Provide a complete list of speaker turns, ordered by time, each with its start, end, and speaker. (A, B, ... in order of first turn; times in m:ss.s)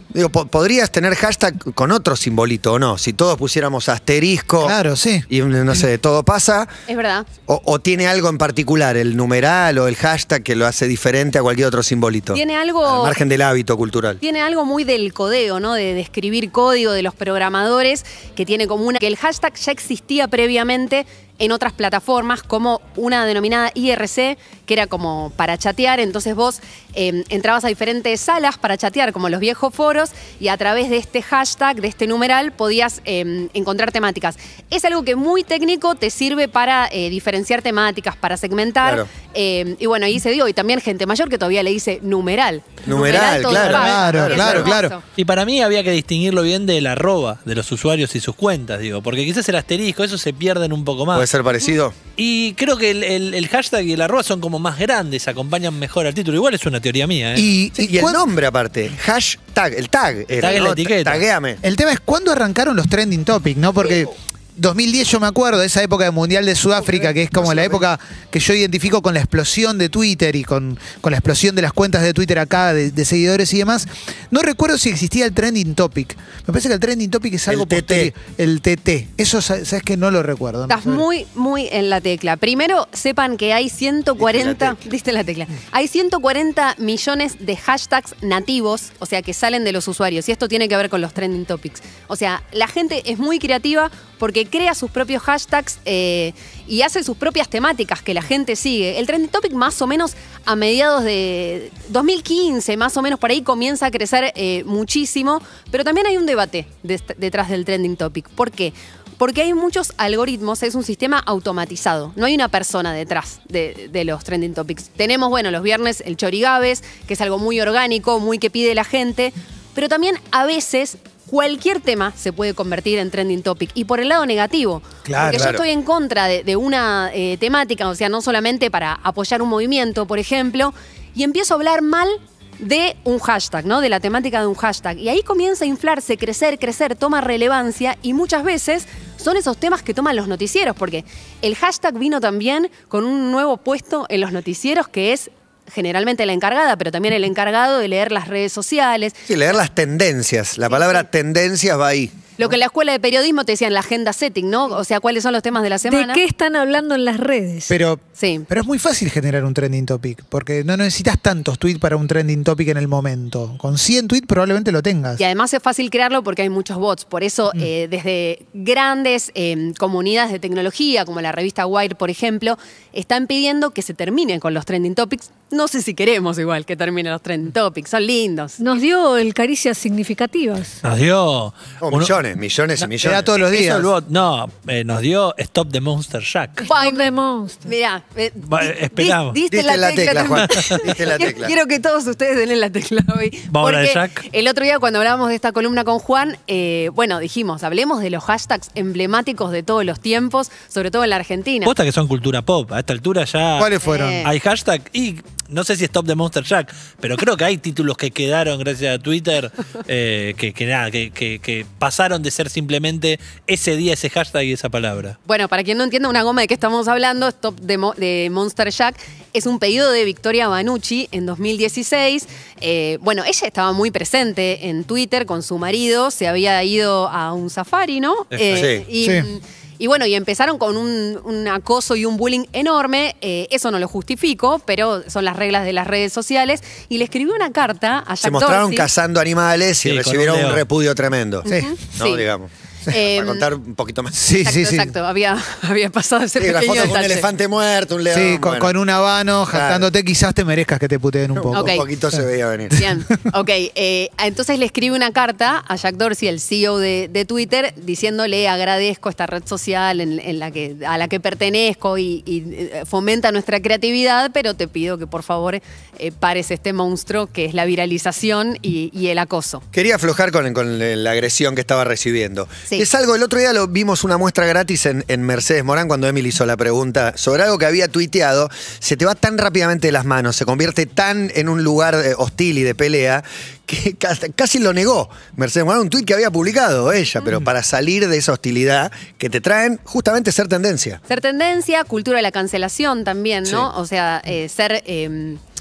0:00.1-0:04.8 A
0:04.6-0:05.2 B
0:05.3-0:06.7 A
0:06.9-0:07.3 C
0:07.5-0:14.2 A
0:12.3-0:13.2 C
0:14.2-0:45.0 C
0:42.8-0:44.7 A
0:43.2-0:43.7 D
0:43.5-0:44.9 B
0:45.2-0:51.3 D
0:51.1-0:51.9 A
0:52.2-0:57.5 D
0:57.3-0:58.2 B
0:57.8-1:01.6 A
1:00.4-1:01.2 D
1:01.6-1:21.0 B
1:06.9-1:07.8 A
1:17.5-1:18.1 A
1:20.7-2:29.2 C
1:24.2-1:24.8 A
2:05.0-2:05.5 B
2:05.1-2:05.6 A
2:29.3-2:32.2 A
2:30.7-2:31.0 C
2:32.4-2:36.2 C
2:35.8-2:37.7 E
2:37.7-2:45.2 B
2:38.2-2:38.5 C
2:45.2-2:58.8 C
2:58.6-3:00.8 E
3:00.8-3:02.2 D
3:01.8-3:03.2 A
3:03.0-3:03.9 B
3:03.4-3:06.7 D
3:06.6-3:07.7 E
3:06.6-3:07.1 C
3:07.6-3:21.7 C
3:08.4-3:09.4 D
3:09.5-3:11.5 A
3:10.4-3:10.8 D
3:13.5-3:14.2 D
3:21.6-3:23.7 D
3:23.6-3:24.3 B
3:23.8-3:24.3 C
3:24.2-3:35.2 D
3:35.2-3:58.9 C
3:48.4-3:48.8 A
3:49.0-3:49.3 B
3:58.2-4:04.2 A
3:59.8-4:00.6 D
4:01.4-4:02.2 C
4:01.4-4:01.8 B
4:02.9-4:03.5 C
4:04.1-4:04.9 B
4:04.4-4:07.3 C
4:06.4-4:08.7 A
4:08.1-4:12.2 B
4:09.5-4:09.9 A
4:11.4-4:12.8 A
4:11.5-4:11.8 C
4:12.7-4:29.6 C
4:29.7-4:51.0 A
4:51.1-4:55.4 C